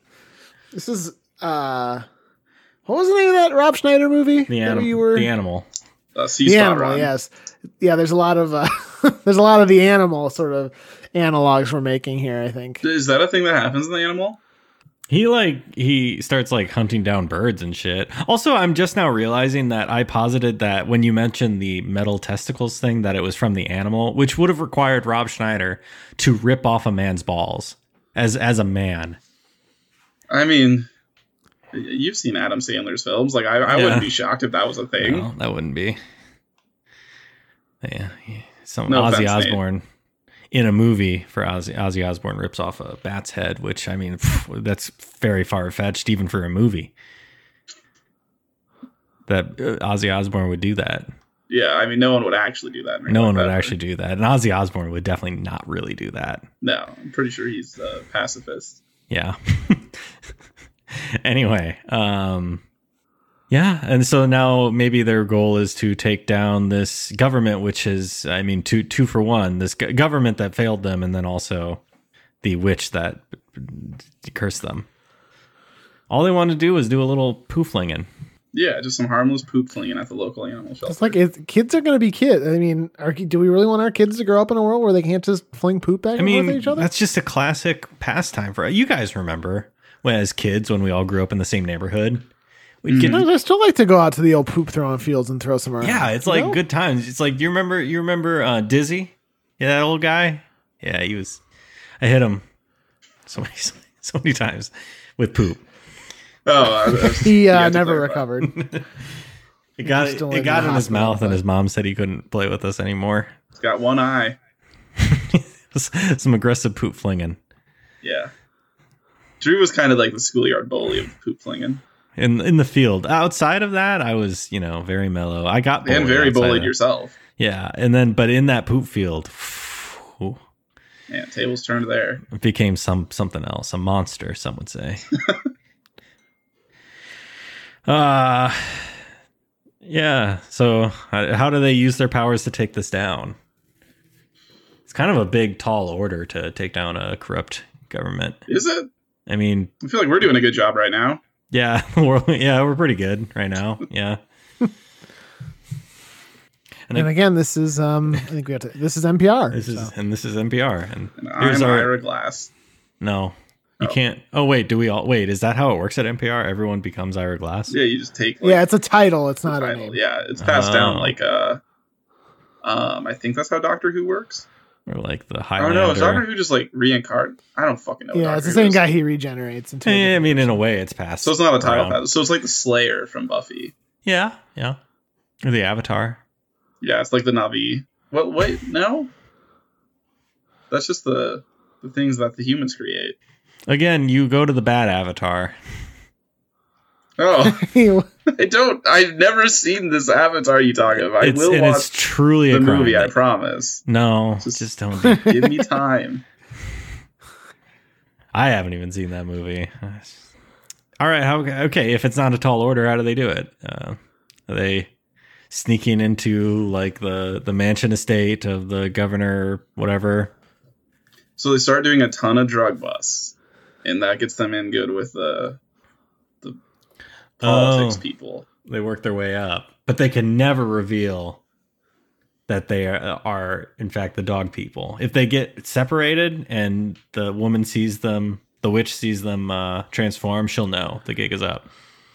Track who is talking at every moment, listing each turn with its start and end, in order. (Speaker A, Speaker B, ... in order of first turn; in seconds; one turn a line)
Speaker A: 0.7-2.1
Speaker A: 2.9-5.3
Speaker B: 4.5-5.7
Speaker C: 6.2-7.1
Speaker A: 6.5-12.8
Speaker C: 12.8-14.4
Speaker B: 15.1-29.2
Speaker C: 30.3-30.9
Speaker C: 31.7-35.3
Speaker B: 33.7-34.1
Speaker B: 35.0-36.0
Speaker B: 37.8-39.8
Speaker C: 38.9-39.6
Speaker B: 40.5-46.9
Speaker B: 49.3-51.1
Speaker C: 51.5-53.8
Speaker B: 53.1-56.5
Speaker C: 56.6-58.8
Speaker B: 59.1-60.1
Speaker B: 60.9-62.6
Speaker B: 63.5-71.8
Speaker B: 72.4-74.9
Speaker B: 76.1-78.1
Speaker C: 78.5-81.2
Speaker A: 80.9-86.9
Speaker B: 86.2-92.3
Speaker B: 92.8-93.3
Speaker C: 92.9-93.2
Speaker A: 92.9-96.6
Speaker B: 95.8-101.4
Speaker B: 102.0-102.4
Speaker B: 103.3-105.6
Speaker C: 106.5-108.2
Speaker A: 106.9-108.5
Speaker B: 108.4-108.9
Speaker B: 109.8-113.3
Speaker A: 109.8-111.4
Speaker C: 113.5-114.4
Speaker B: 115.0-117.4
Speaker C: 118.0-118.3
Speaker C: 119.4-121.8
Speaker B: 122.2-126.7
Speaker C: 125.8-127.2
Speaker B: 127.4-130.4
Speaker C: 131.1-132.2
Speaker B: 132.3-135.1
Speaker B: 137.9-139.0
Speaker B: 139.8-143.4
Speaker B: 144.9-148.4
Speaker C: 148.5-148.9
Speaker B: 149.3-149.7
Speaker C: 149.8-151.2
Speaker B: 151.5-154.2
Speaker A: 156.9-159.9
Speaker B: 159.5-161.9
Speaker C: 161.2-162.5
Speaker B: 163.0-167.8
Speaker C: 167.7-168.7
Speaker A: 168.4-170.0
Speaker C: 169.5-171.6
Speaker B: 170.4-171.2
Speaker C: 172.6-174.5
Speaker B: 174.9-176.3
Speaker C: 175.6-178.8
Speaker A: 178.1-180.6
Speaker B: 179.8-182.0
Speaker C: 181.2-183.7
Speaker B: 184.1-184.8
Speaker B: 185.4-186.2
Speaker C: 186.8-189.1
Speaker C: 190.7-193.2
Speaker B: 193.7-195.6
Speaker C: 197.2-197.7
Speaker A: 197.4-198.1
Speaker C: 198.4-201.9
Speaker B: 201.2-203.1
Speaker C: 202.5-203.8
Speaker B: 203.9-205.3
Speaker C: 204.4-206.2
Speaker B: 208.3-210.3
Speaker B: 211.0-214.9
Speaker B: 215.5-220.3
Speaker C: 221.4-225.6
Speaker C: 227.4-228.5
Speaker B: 227.4-228.0
Speaker B: 228.7-231.4
Speaker B: 232.5-241.7